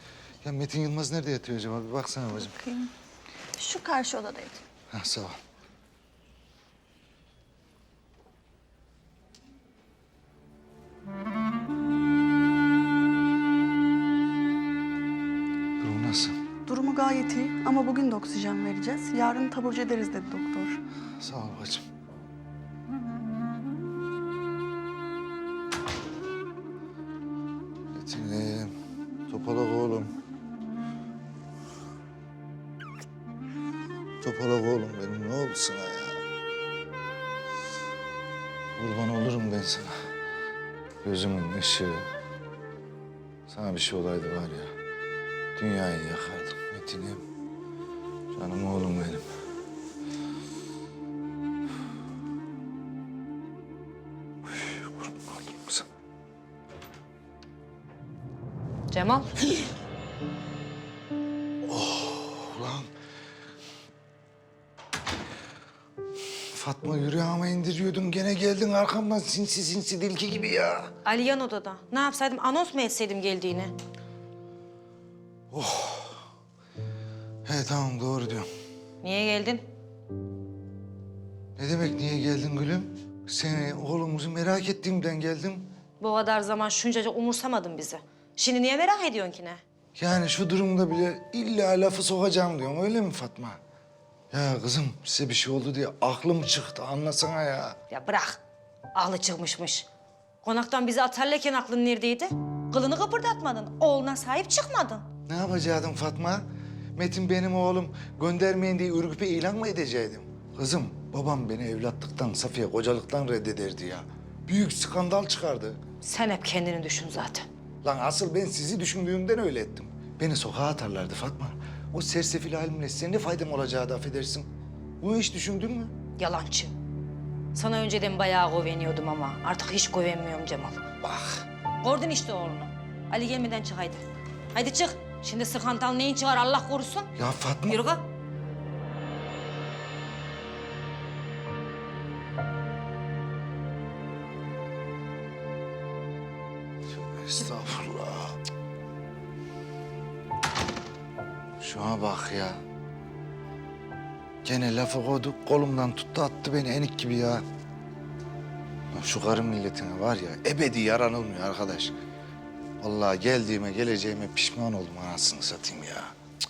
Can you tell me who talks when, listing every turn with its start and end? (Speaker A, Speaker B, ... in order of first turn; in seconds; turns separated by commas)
Speaker A: 0.4-2.5, Speaker B: 2.4-2.9, Speaker B: 3.6-4.6, Speaker A: 4.9-5.4, Speaker A: 15.8-16.4, Speaker B: 16.7-20.8, Speaker A: 21.2-21.9, Speaker A: 27.9-28.7, Speaker A: 29.3-30.2, Speaker A: 34.2-36.2, Speaker A: 38.8-40.0, Speaker A: 41.0-42.1, Speaker A: 43.5-44.7, Speaker A: 45.6-47.2, Speaker A: 48.3-49.3, Speaker A: 54.5-55.9, Speaker C: 58.9-59.5, Speaker A: 61.6-62.9, Speaker A: 66.5-70.9, Speaker C: 71.0-73.7, Speaker A: 75.5-76.3, Speaker A: 77.5-78.5, Speaker C: 79.0-79.7, Speaker A: 81.6-85.7, Speaker C: 86.0-89.6, Speaker A: 90.0-93.6, Speaker A: 94.3-97.8, Speaker C: 97.9-98.4, Speaker C: 99.0-99.9, Speaker C: 100.4-105.0, Speaker A: 105.3-106.4, Speaker A: 107.0-115.8, Speaker C: 116.0-117.5, Speaker A: 117.8-124.5, Speaker A: 125.0-125.9, Speaker C: 126.2-126.7, Speaker C: 127.5-130.9, Speaker A: 131.0-131.4, Speaker C: 131.8-137.1, Speaker A: 137.2-137.8, Speaker C: 137.7-138.0, Speaker A: 146.9-148.4, Speaker A: 151.6-152.6, Speaker A: 154.4-157.4, Speaker A: 158.9-161.9, Speaker A: 162.8-166.2